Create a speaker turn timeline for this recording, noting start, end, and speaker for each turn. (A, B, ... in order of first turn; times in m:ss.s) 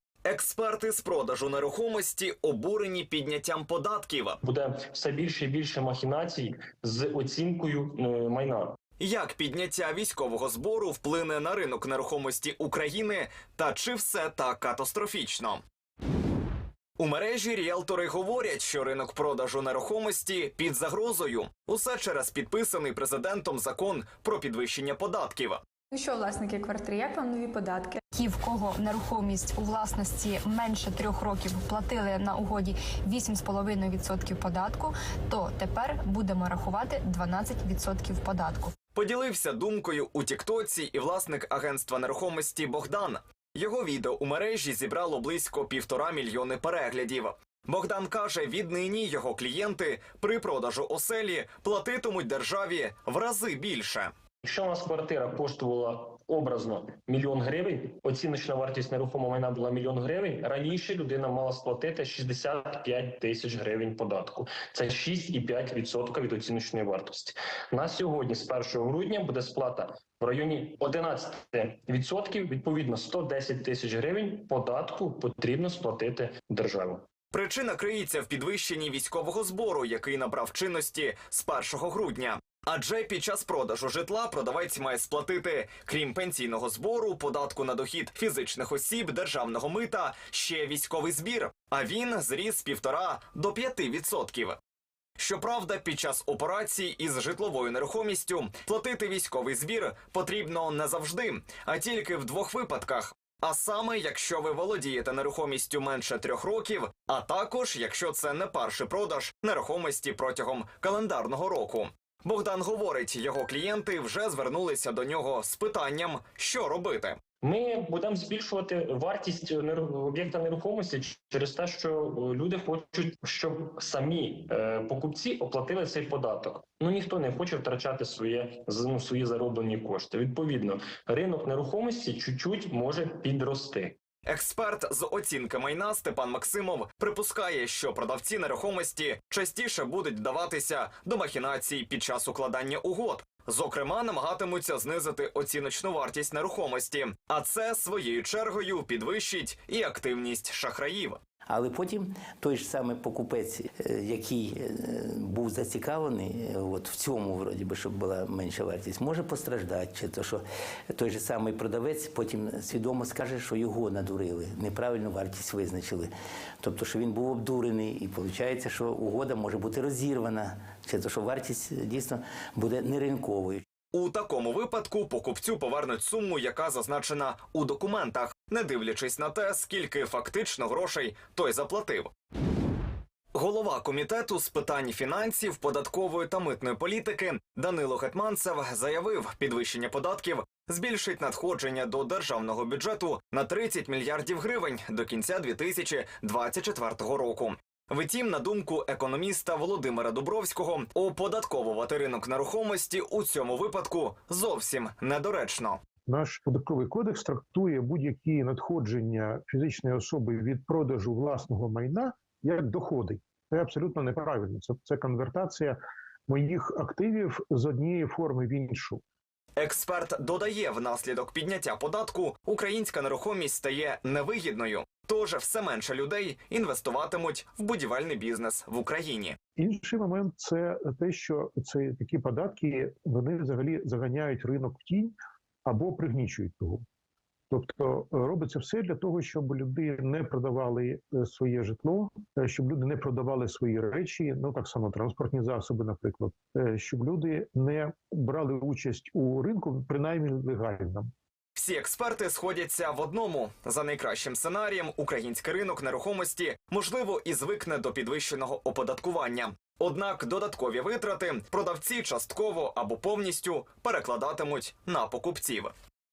0:00.2-0:04.4 A
0:04.4-0:08.8 B
0:09.0-0:15.6 A
0:17.0-0:25.6 A
0:25.9-0:28.1 C
0:28.1-0:38.7 D
0:38.9-0:54.1 A
0:54.4-1:17.0 B
1:17.3-1:34.6 A
1:35.2-1:57.2 A
1:57.4-2:14.0 B
2:14.3-2:31.2 A
2:31.5-2:53.6 E
2:53.9-3:02.1 A
3:03.3-3:25.8 A
3:26.0-3:35.8 F
3:36.3-3:39.0 F
3:39.6-3:49.4 A
3:49.6-3:55.1 F
3:55.6-3:56.8 F
3:57.5-4:11.1 F
4:11.5-4:25.7 A